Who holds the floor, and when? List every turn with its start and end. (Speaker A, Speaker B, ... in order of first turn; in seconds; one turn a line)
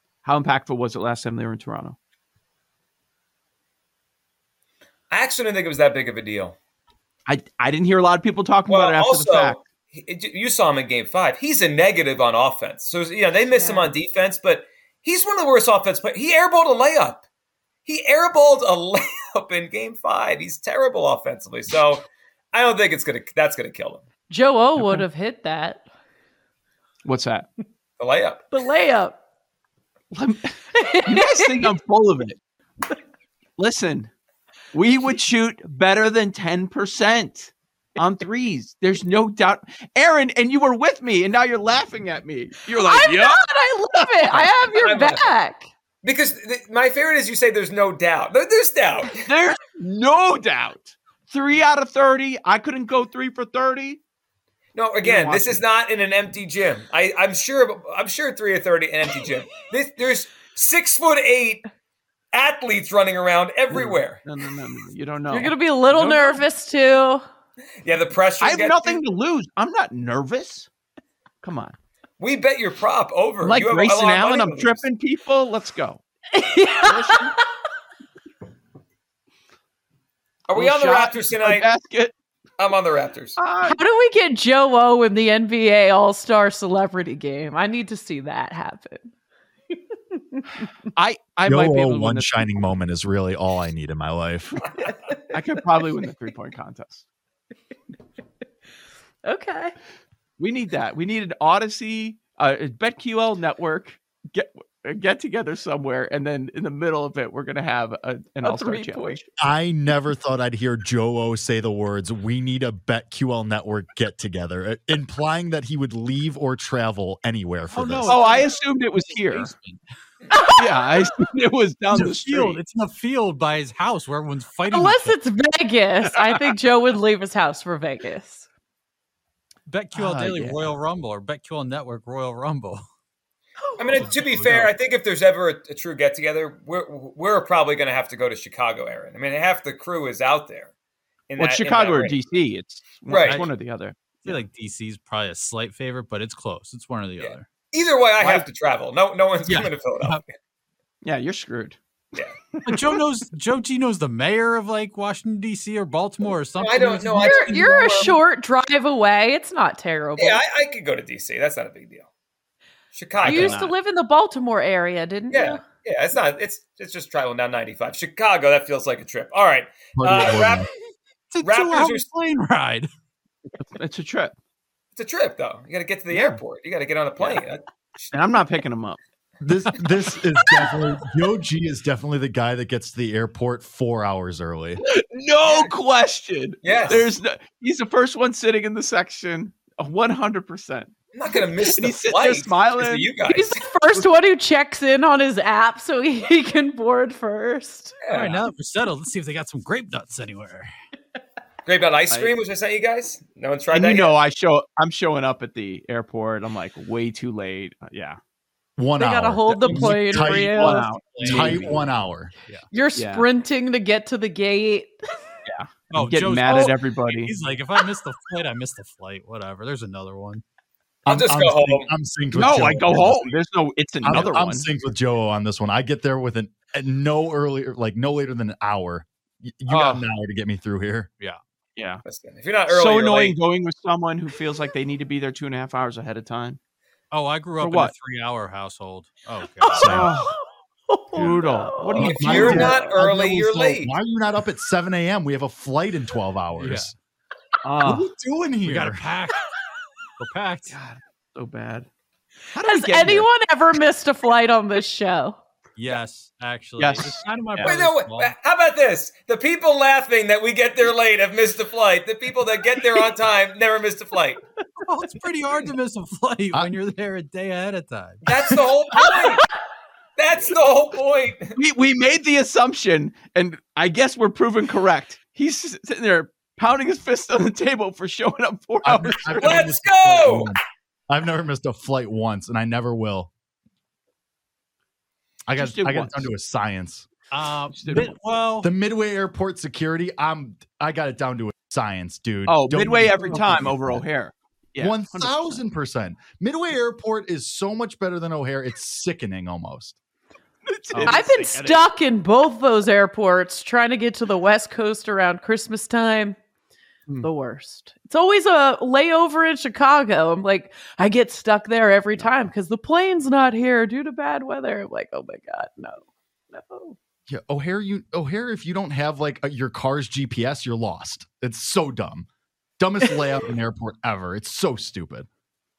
Speaker A: 0.2-2.0
Speaker B: 5.1-6.6
Speaker A: 7.3-9.6
Speaker B: 8.7-17.2
Speaker C: 13.5-13.9
Speaker B: 17.9-24.0
Speaker C: 24.3-25.9
Speaker A: 24.8-25.0
Speaker A: 27.0-27.5
Speaker B: 28.0-28.4
Speaker C: 28.5-29.2
Speaker A: 30.1-30.5
Speaker C: 30.7-31.7
Speaker A: 31.1-32.4
Speaker A: 33.6-34.1
Speaker A: 34.7-43.4
Speaker C: 42.8-45.7
Speaker A: 44.0-44.5
Speaker B: 44.8-45.3
Speaker B: 46.0-49.2
Speaker A: 49.1-54.0
Speaker B: 54.8-61.6
Speaker A: 55.0-55.6
Speaker B: 62.3-64.2
Speaker A: 63.7-65.5
Speaker C: 65.3-67.2
Speaker D: 65.9-66.4
Speaker B: 67.8-69.0
Speaker A: 68.4-70.7
Speaker A: 71.4-71.8
Speaker B: 72.2-74.8
Speaker A: 73.4-76.0
Speaker C: 76.3-77.4
Speaker A: 76.8-77.3
Speaker B: 80.5-81.7
Speaker A: 80.5-82.1
Speaker B: 82.6-83.4
Speaker A: 83.4-83.8
Speaker C: 83.6-89.1
Speaker C: 89.7-90.4
Speaker A: 91.0-92.7
Speaker E: 91.5-94.7
Speaker A: 95.3-97.0
Speaker C: 99.2-99.7
Speaker A: 100.4-109.2
Speaker C: 108.4-109.2
Speaker E: 109.4-118.2
Speaker D: 117.7-119.8
Speaker A: 118.0-119.5
Speaker A: 120.5-122.6
Speaker D: 121.9-125.2
Speaker C: 124.7-128.5
Speaker D: 129.7-132.8
Speaker A: 129.9-130.7
Speaker C: 133.6-134.1
Speaker B: 133.8-140.7
Speaker D: 134.0-134.7
Speaker B: 141.3-142.2
Speaker A: 141.4-144.4
Speaker B: 143.1-143.5
Speaker D: 143.2-143.6
Speaker D: 144.2-147.5
Speaker B: 147.2-150.3
Speaker A: 148.2-148.5
Speaker A: 149.4-149.7
Speaker A: 151.0-151.8
Speaker A: 152.6-153.0
Speaker D: 152.6-157.6
Speaker B: 156.6-158.2
Speaker C: 157.1-160.4
Speaker B: 160.2-162.1
Speaker B: 162.9-163.7
Speaker A: 163.2-163.7
Speaker C: 163.2-165.6
Speaker B: 165.3-170.7
Speaker E: 170.0-170.7
Speaker D: 171.3-172.9
Speaker B: 171.4-172.1
Speaker A: 173.6-174.3
Speaker B: 174.9-178.1
Speaker A: 176.1-176.4
Speaker A: 177.2-177.4
Speaker A: 178.1-179.0
Speaker E: 179.4-184.8
Speaker A: 184.9-193.1
Speaker B: 186.6-187.1
Speaker B: 191.1-193.6
Speaker C: 193.3-197.9
Speaker B: 198.0-198.4
Speaker D: 198.1-200.7
Speaker B: 201.7-204.1
Speaker A: 202.1-202.4
Speaker A: 203.7-208.2
Speaker E: 208.8-212.3
Speaker C: 209.0-210.9
Speaker A: 209.5-211.8
Speaker D: 209.9-211.8
Speaker C: 212.7-215.0
Speaker A: 212.9-213.3
Speaker A: 215.5-217.3
Speaker D: 215.9-220.4
Speaker E: 221.0-223.4
Speaker B: 221.1-221.9
Speaker A: 222.3-224.7
Speaker E: 224.0-231.1
Speaker A: 229.7-230.1
Speaker A: 231.8-232.0
Speaker B: 232.0-233.4
Speaker A: 232.7-236.6
Speaker D: 237.1-240.1
Speaker A: 237.6-237.9
Speaker C: 239.6-240.3
Speaker E: 239.8-240.1
Speaker A: 239.9-240.3
Speaker C: 240.9-242.4
Speaker A: 241.1-242.8
Speaker B: 242.0-243.9
Speaker E: 242.0-246.9
Speaker D: 246.6-246.9
Speaker A: 247.6-248.1
Speaker E: 247.8-249.0
Speaker D: 248.6-249.5
Speaker D: 250.2-250.8
Speaker A: 250.7-251.9
Speaker A: 252.5-253.3
Speaker C: 252.6-255.4
Speaker D: 255.8-258.3
Speaker A: 256.8-257.8
Speaker B: 257.6-264.4
Speaker D: 264.8-268.4
Speaker B: 268.2-269.4
Speaker B: 270.2-271.5
Speaker A: 271.6-279.6
Speaker E: 278.8-283.3
Speaker B: 279.4-280.5
Speaker E: 285.5-287.1
Speaker A: 285.6-286.3
Speaker D: 287.3-288.7
Speaker A: 287.7-288.2
Speaker E: 288.6-294.0
Speaker A: 292.5-295.6
Speaker E: 294.8-300.0
Speaker A: 300.6-301.9
Speaker E: 300.9-301.2
Speaker C: 301.0-306.4
Speaker C: 307.2-317.0
Speaker E: 317.3-322.3
Speaker E: 322.8-325.3